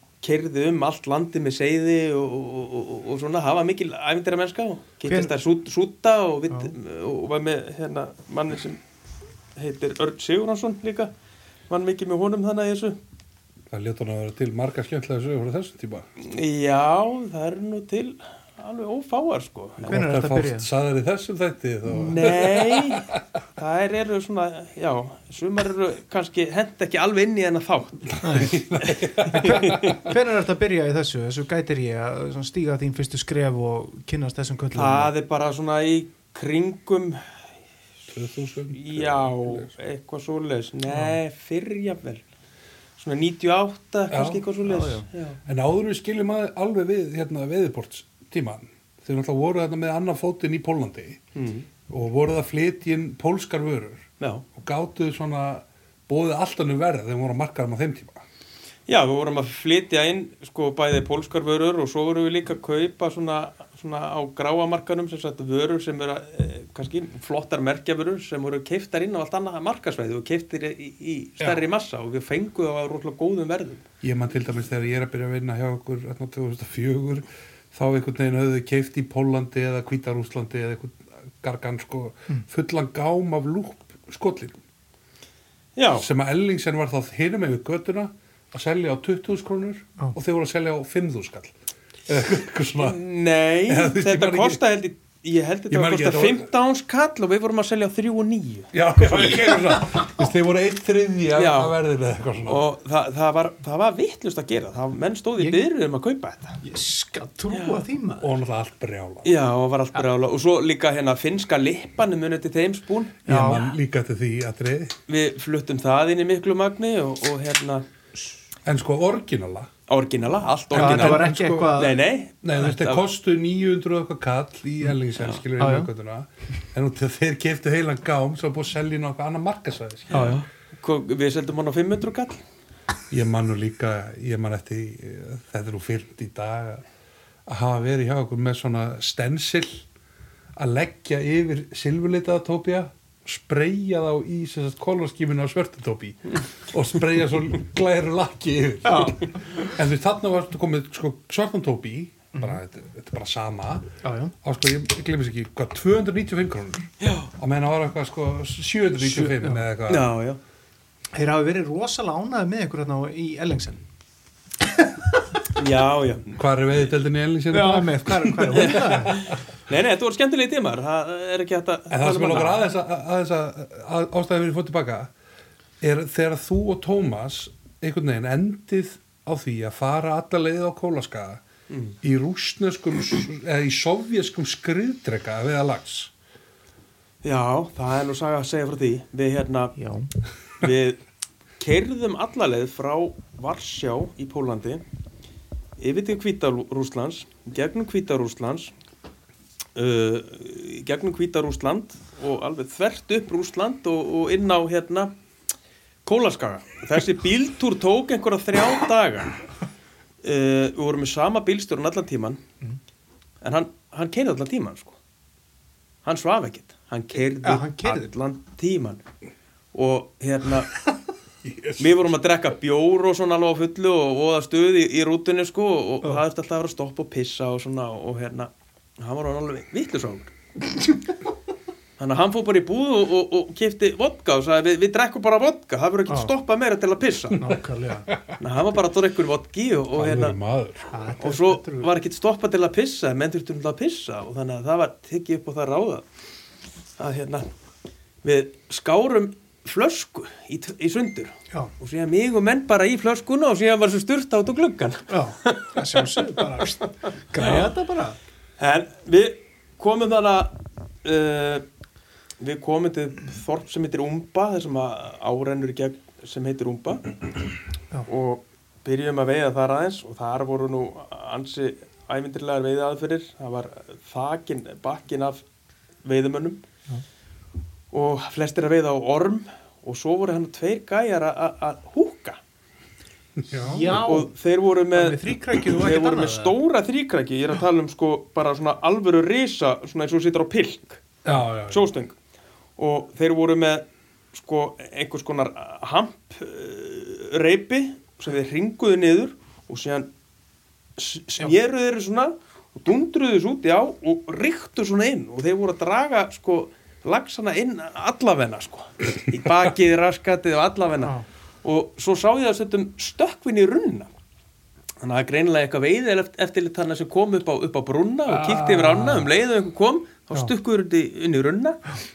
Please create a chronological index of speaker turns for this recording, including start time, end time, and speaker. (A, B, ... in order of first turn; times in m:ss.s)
0:00.2-0:08.8 A
0:05.1-0:05.3 B
0:09.6-0:11.1 A
0:11.7-0:13.0 A
0:13.7-0:16.1 C
0:16.2-0:19.9 A
0:19.8-0:23.2 C
0:19.8-0:20.7 B
0:21.9-0:28.2 A
0:28.2-0:28.6 B
0:28.2-0:30.1 C
0:28.8-0:30.0 A
0:29.3-0:35.1 B
0:34.7-0:37.2 A
0:38.1-0:39.7 C
0:38.7-0:42.2 A
0:43.0-0:45.4 A
0:44.1-0:44.5 C
0:44.6-0:45.1 B
0:45.5-0:51.2 C
0:51.4-0:51.7 A
0:51.9-0:58.2 C
0:54.2-0:54.4 A
0:58.9-1:13.8 A
1:11.4-1:11.7 C
1:14.0-1:24.6 C
1:25.8-1:26.1 A
1:26.0-1:31.6 C
1:32.1-1:33.0 C
1:32.8-1:39.5 A
1:33.7-1:34.6 C
1:35.7-1:36.5 C
1:38.7-1:42.6 C
1:41.3-1:41.8 A
1:42.5-1:46.6 A
1:46.6-1:48.3 B
1:47.5-1:47.8 A
1:48.2-1:49.3 C
1:49.2-1:53.2 A
1:53.3-1:53.7 B
1:53.3-1:55.0 C
1:55.1-1:57.8 A
1:58.7-1:59.7 C
1:59.9-2:03.0 A
2:00.7-2:01.8 C
2:00.8-2:02.0 B
2:02.4-2:10.3 C
2:05.6-2:05.9 B
2:10.1-2:12.4 A
2:10.1-2:10.4 B
2:13.1-2:16.8 C
2:17.5-2:19.8 C
2:20.6-2:33.9 C
2:28.9-2:29.3 B
2:32.3-2:32.6 B
2:34.0-2:34.3 B
2:34.4-2:40.1 C
2:37.0-2:37.3 A
2:39.0-2:39.6 B
2:39.9-2:40.4 A
2:41.1-2:43.8 B
2:45.6-2:46.4 A
2:46.4-2:49.3 C
2:47.5-2:49.2 B
2:48.5-2:52.7 A
2:51.9-2:55.1 C
2:55.8-3:01.4 C
3:01.7-3:02.0 A
3:02.0-3:06.1 C
3:07.2-3:09.8 A
3:09.8-3:10.1 B
3:10.6-3:11.0 A
3:11.6-3:14.8 A
3:15.8-3:18.7 A
3:19.8-3:25.1 A
3:26.0-3:29.4 A
3:30.2-3:32.4 A
3:33.4-3:35.0 A
3:36.0-3:39.0 A
3:37.4-3:38.1 B
3:39.7-3:40.7 A
3:41.4-3:42.0 C
3:41.8-3:50.3 A
3:52.0-3:57.5 A
3:56.1-3:56.3 B
3:57.3-3:58.1 B
3:58.1-3:58.4 C
3:58.4-4:00.4 A
4:00.0-4:00.9 C
4:00.9-4:01.9 B
4:01.2-4:06.0 A
4:07.0-4:07.5 A
4:08.2-4:16.5 A
4:15.1-4:18.2 B
4:17.4-4:17.7 A
4:18.6-4:21.6 A
4:22.4-4:27.1 A
4:28.1-4:35.4 A
4:36.0-4:36.6 A
4:37.9-4:42.4 A
4:43.4-4:44.1 C
4:43.6-4:44.3 B
4:43.9-4:51.0 A
4:44.9-4:46.6 B
4:51.2-4:51.9 C
4:51.7-4:52.2 A
4:52.8-5:00.1 A
5:01.0-5:14.1 A
5:15.0-5:22.0 A
5:18.3-5:19.3 C